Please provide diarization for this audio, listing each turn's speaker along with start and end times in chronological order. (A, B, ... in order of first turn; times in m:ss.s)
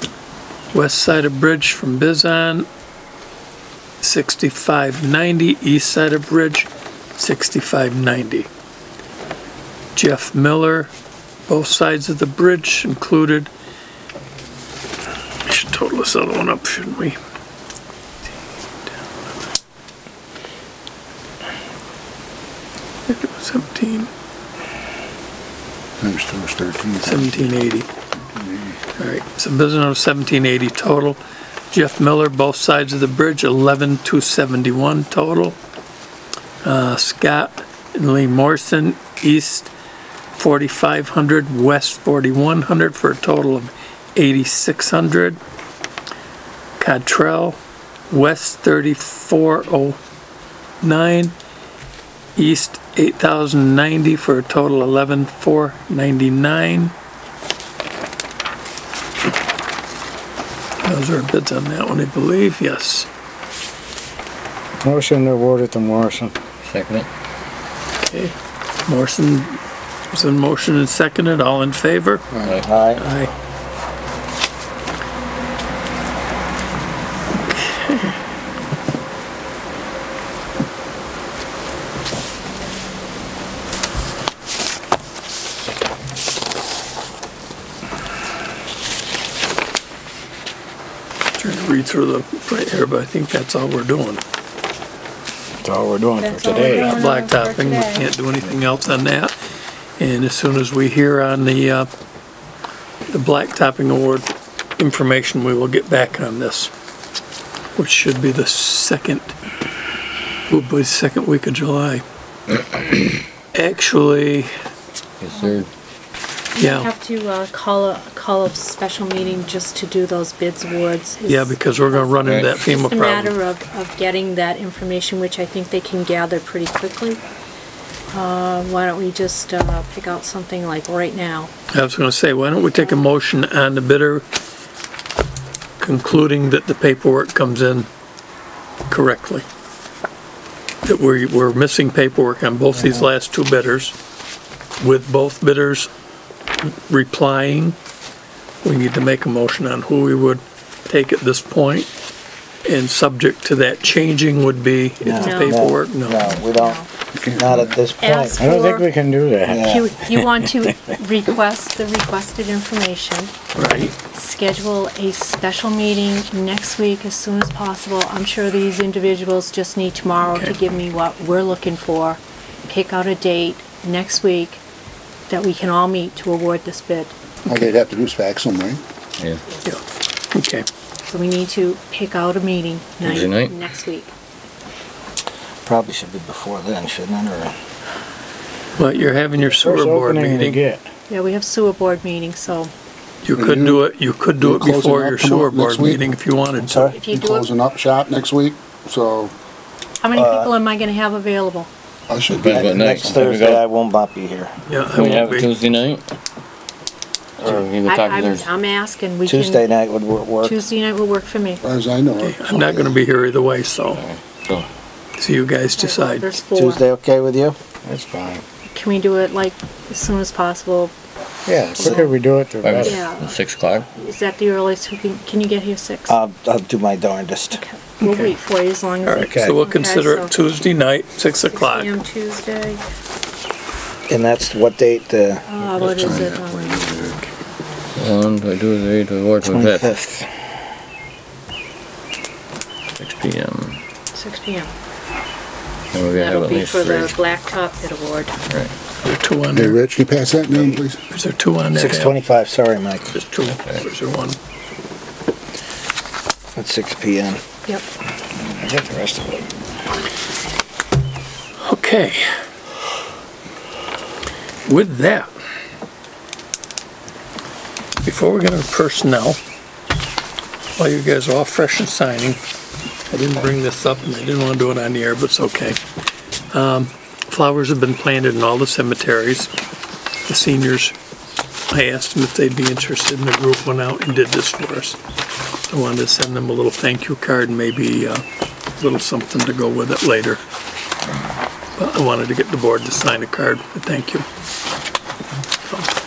0:00.7-0:02.7 A
0:04.0-0:08.5 A
0:09.9-0:10.9 A
0:11.5-0:13.5 A
0:15.4-0:17.2 A
0:23.1-0:24.1 A
0:26.0-0:27.5 B
0:27.0-0:27.9 A
0:28.2-0:28.8 B
0:29.0-0:31.2 A
0:31.7-0:35.6 A
0:36.6-0:39.7 A
0:40.4-0:45.4 A
0:46.8-0:47.6 A
0:48.1-0:50.0 A
0:50.8-0:51.3 A
0:52.4-0:56.9 A
1:00.8-1:03.1 A
1:04.8-1:06.3 C
1:06.6-1:07.1 D
1:08.0-1:08.3 A
1:08.8-1:09.6 A
1:10.1-1:12.2 A
1:12.4-1:12.7 D
1:12.6-1:13.0 E
1:13.0-1:13.3 A
1:17.5-1:18.1 A
1:31.4-1:34.2 A
1:35.6-1:37.0 C
1:36.2-1:38.1 F
1:36.7-1:39.3 A
1:40.0-1:41.9 A
1:43.1-1:46.7 A
1:47.8-1:49.3 A
1:50.5-1:52.0 A
1:53.5-1:54.5 A
1:55.2-1:55.7 D
1:55.3-1:55.6 F
1:56.5-2:07.2 F
1:56.6-1:56.9 A
2:01.2-2:03.4 A
2:02.2-2:02.7 D
2:08.1-2:11.5 F
2:11.7-2:14.2 A
2:12.8-2:13.1 F
2:15.8-2:17.9 A
2:18.9-2:19.4 A
2:20.8-2:23.9 A
2:24.8-2:25.9 A
2:26.6-2:27.8 A
2:28.6-2:31.9 A
2:32.6-2:36.2 A
2:35.0-2:36.8 E
2:35.1-2:36.9 F
2:37.2-2:37.7 B
2:37.3-2:38.1 E
2:38.0-2:38.9 F
2:38.1-2:40.3 C
2:39.5-2:39.9 E
2:39.6-2:43.4 F
2:43.5-2:43.9 A
2:44.0-2:54.6 F
2:50.2-2:50.5 A
2:55.3-2:57.1 F
2:57.5-2:58.8 B
2:59.6-3:00.6 A
3:01.1-3:04.1 F
3:03.0-3:03.6 D
3:05.6-3:07.5 E
3:08.8-3:10.6 A
3:09.4-3:10.9 C
3:11.1-3:12.7 F
3:13.2-3:16.8 A
3:13.3-3:16.1 B
3:16.6-3:17.0 E
3:16.8-3:17.5 F
3:17.0-3:19.3 B
3:20.0-3:21.7 F
3:20.1-3:20.5 E
3:22.1-3:23.2 B
3:22.3-3:23.6 D
3:22.5-3:24.5 E
3:24.7-3:25.5 A
3:24.9-3:26.1 D
3:27.4-3:28.5 D
3:27.7-3:29.7 F
3:29.2-3:30.6 E
3:30.4-3:31.6 F
3:31.6-3:32.7 B
3:32.2-3:34.0 A
3:32.5-3:32.8 E
3:33.9-3:34.7 D
3:35.2-3:36.4 A
3:35.7-3:36.8 F
3:36.5-3:37.6 E
3:37.8-3:38.4 C
3:38.7-3:40.9 F
3:41.4-3:43.0 C
3:41.6-3:42.1 F
3:42.6-3:43.9 D
3:42.8-3:43.4 F
3:43.9-3:46.2 F
3:46.1-3:47.6 E
3:47.5-3:50.3 F
3:48.0-3:48.3 A
3:49.0-3:51.9 A
3:49.2-3:49.6 E
3:51.4-3:52.8 F
3:54.1-3:55.5 E
3:55.5-3:57.0 F
3:55.8-3:57.2 B
3:57.9-3:59.9 D
3:59.4-4:00.3 E
4:03.0-4:03.8 D
4:04.1-4:04.7 F
4:05.9-4:07.1 D
4:06.1-4:08.3 F
4:08.5-4:08.7 D
4:09.0-4:09.8 A
4:09.5-4:11.0 B
4:11.1-4:12.2 A
4:11.7-4:13.1 E
4:13.1-4:14.4 A
4:13.5-4:13.8 D
4:16.6-4:17.4 E
4:18.4-4:19.5 E
4:21.6-4:22.2 A
4:24.6-4:25.3 A
4:28.0-4:29.4 A
4:30.8-4:32.4 A
4:33.1-4:35.8 A
4:36.5-4:39.5 A
4:40.2-4:40.9 A
4:41.7-4:45.0 A
4:45.7-4:48.2 A
4:48.8-4:50.4 A
4:51.8-4:54.2 A